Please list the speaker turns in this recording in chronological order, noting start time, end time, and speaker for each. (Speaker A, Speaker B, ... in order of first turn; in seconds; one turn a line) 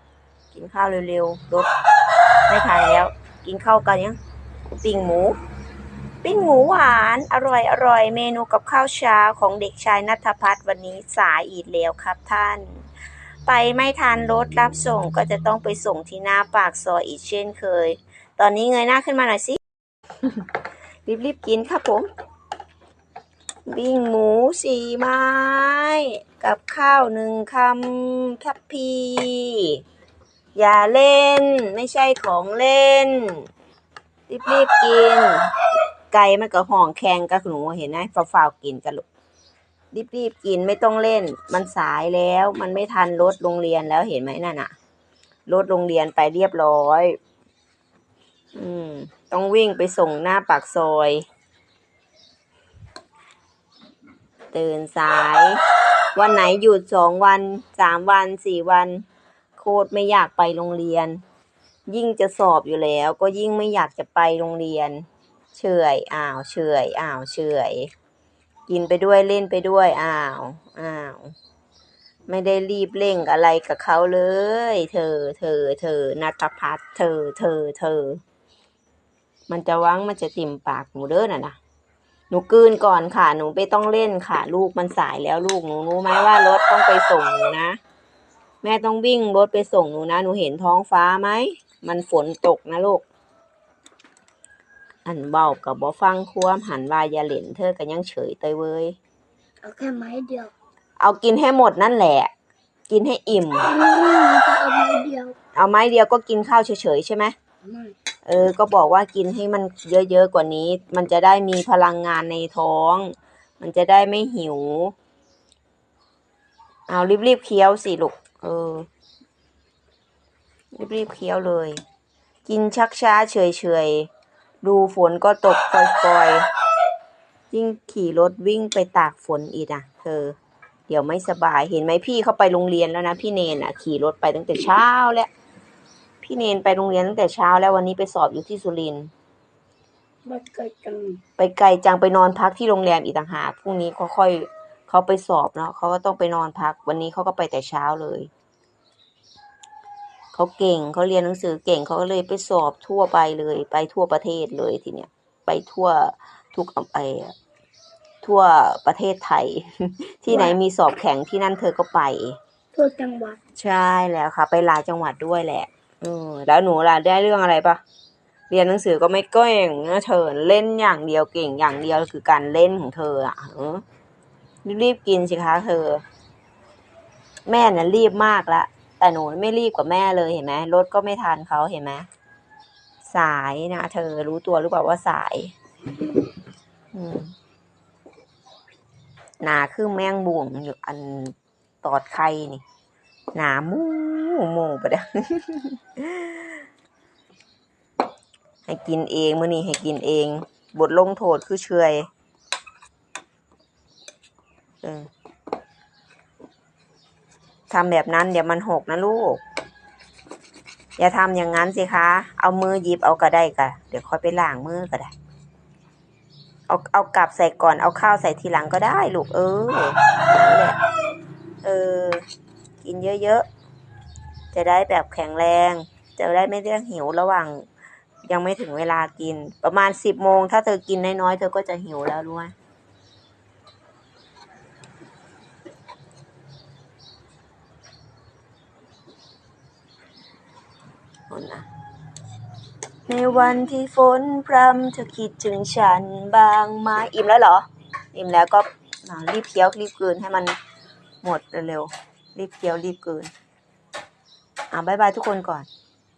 Speaker A: 0.5-1.7
Speaker A: 2.5-4.2
Speaker A: 4.7-5.4
Speaker A: 6.2-12.9
Speaker A: 13.5-19.6
Speaker A: 21.1-22.1
Speaker A: 23.7-29.8
Speaker A: 30.6-33.5
Speaker A: 34.3-35.5
Speaker A: 36.1-39.0
Speaker A: 39.9-44.7
Speaker A: 45.5-47.2
Speaker A: 48.5-51.2
Speaker A: 54.5-55.6
Speaker A: 56.1-59.0
Speaker A: 59.6-61.2
Speaker A: 61.9-67.9
Speaker A: 68.7-71.3
Speaker A: 72.3-78.2
Speaker A: 79.5-81.6
Speaker A: 82.3-87.8
Speaker A: 88.6-93.0
Speaker A: 95.0-99.0
Speaker B: 99.6-100.5
Speaker A: 101.0-102.3
Speaker A: 102.9-103.7
Speaker B: 103.7-105.4
Speaker A: 105.5-107.3
Speaker B: 107.7-108.0
Speaker A: 108.2-114.9
Speaker A: 116.9-118.9
Speaker A: 120.7-121.8
Speaker A: 122.5-124.1
Speaker A: 124.6-126.5
Speaker A: 127.5-130.4
Speaker A: 130.9-135.3
Speaker A: 136.2-139.1
Speaker B: 140.3-141.2
Speaker A: 141.4-148.3
Speaker A: 150.3-157.3
Speaker A: 158.2-162.4
Speaker B: 160.3-160.6
Speaker B: 162.7-163.4
Speaker A: 163.6-167.8
Speaker A: 168.5-173.8
Speaker A: 174.6-176.0
Speaker A: 177.5-182.1
Speaker A: 183.1-185.5
Speaker A: 186.9-187.3
Speaker A: 189.4-192.6
Speaker A: 193.3-196.6
Speaker A: 198.7-202.1
Speaker A: 204.8-205.1
Speaker A: 207.7-209.4
Speaker A: 211.0-215.1
Speaker A: 216.7-220.8
Speaker A: 221.6-222.2
Speaker A: 222.8-223.5
Speaker A: 224.5-227.7
Speaker A: 228.2-232.5
Speaker A: 241.3-241.7
Speaker A: 243.1-250.6
Speaker A: 251.2-253.3
Speaker A: 254.7-255.7